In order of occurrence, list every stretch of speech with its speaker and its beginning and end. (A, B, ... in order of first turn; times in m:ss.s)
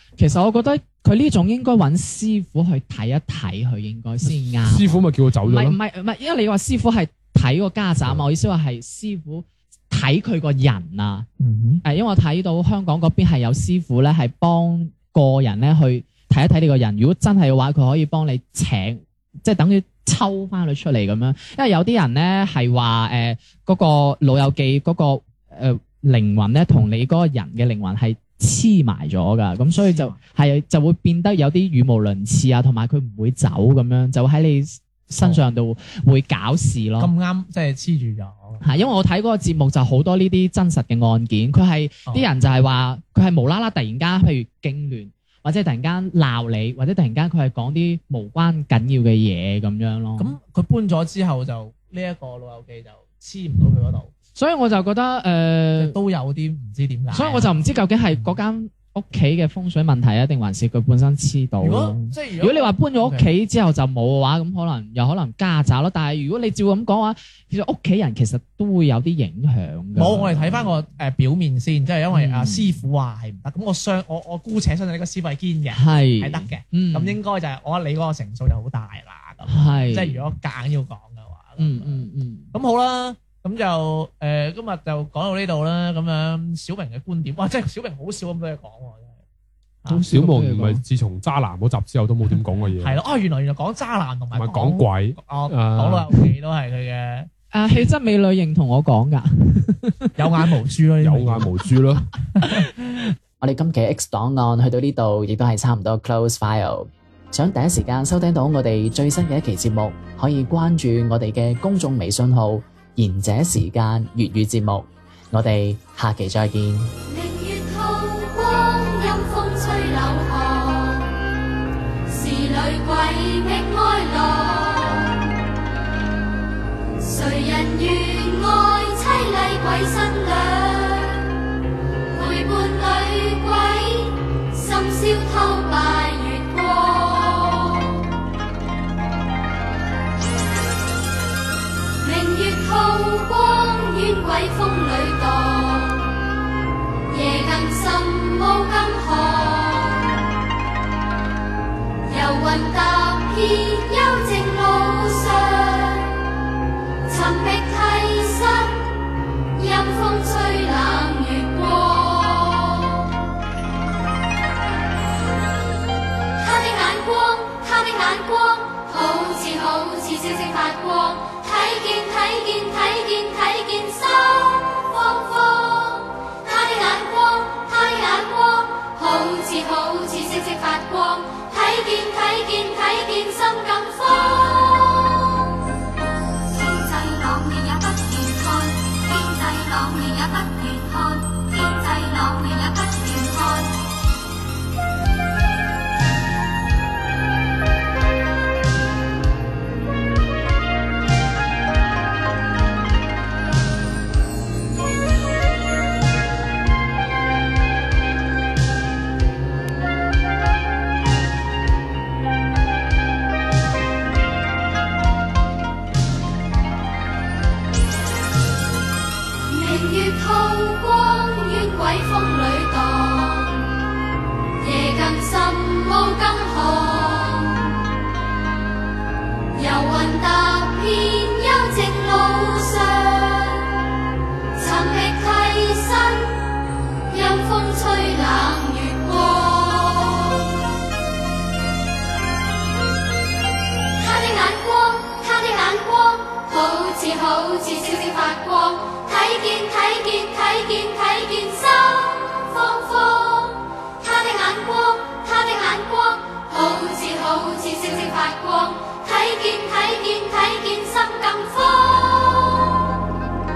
0:00.2-0:11.3 A
0:04.4-0:05.8 B
0:11.4-0:11.8 C
0:11.8-0:37.1 A
0:29.8-0:30.2 C
0:37.0-0:38.6 C
0:38.6-0:50.4 A
0:50.2-0:54.1 C
0:54.4-0:56.0 A
0:55.8-0:57.5 C
0:57.1-1:10.7 A
1:01.6-1:03.3 C
1:10.0-1:29.1 C
1:12.1-1:12.8 A
1:15.7-1:17.2 A
1:19.5-1:20.2 A
1:21.6-1:22.5 A
1:29.9-1:30.8 A
1:30.1-1:33.0 B
1:32.8-1:37.9 C
1:34.3-1:36.1 B
1:37.5-1:40.2 A
1:40.2-1:41.7 C
1:41.0-1:42.1 B
1:42.4-1:42.7 C
1:43.4-1:57.0 D
1:57.1-2:01.1 E
2:02.1-2:05.4 E
2:07.0-2:11.3 E
2:12.1-2:18.0 E
2:22.0-2:26.2 E
2:27.1-2:30.2 E
2:32.1-2:36.1 E
2:37.1-2:38.9 E
2:39.6-2:43.0 E
2:46.4-3:05.5 E
3:06.5-3:13.8 E
3:39.5-3:43.8 E
3:44.6-3:47.8 E
3:49.5-3:53.8 E
3:54.6-3:56.4 E
3:57.1-4:00.6 E
4:04.0-4:22.9 E